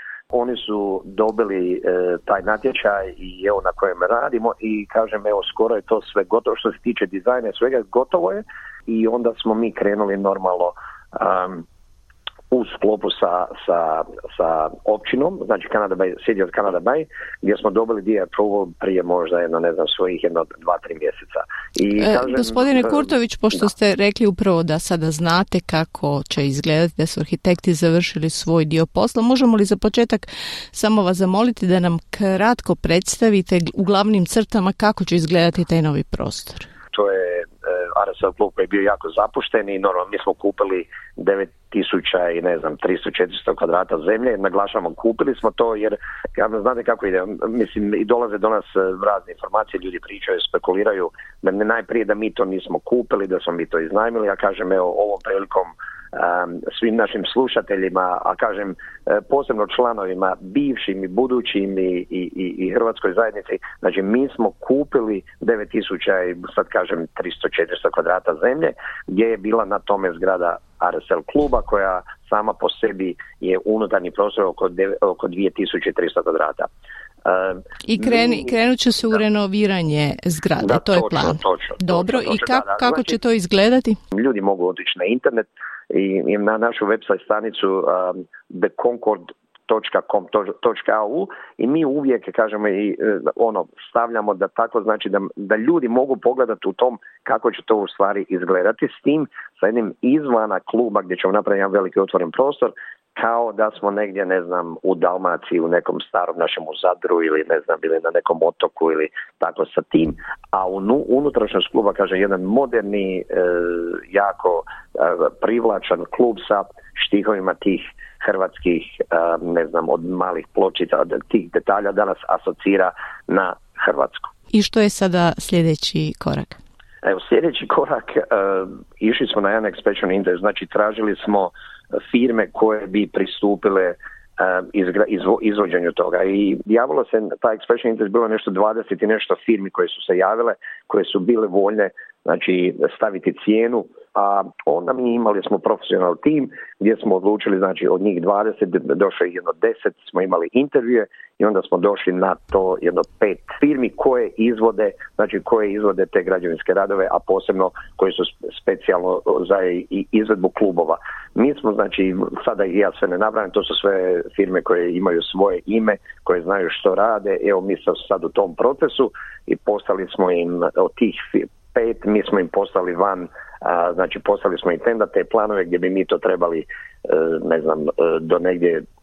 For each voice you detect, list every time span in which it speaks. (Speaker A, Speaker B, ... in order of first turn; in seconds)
Speaker A: 0.3-11.6, 12.5-23.7, 36.9-76.7, 77.3-79.2, 80.6-83.2, 84.1-124.3, 127.0-131.5, 132.1-178.8
Speaker B: 22.0-36.7, 77.9-84.0, 124.5-126.6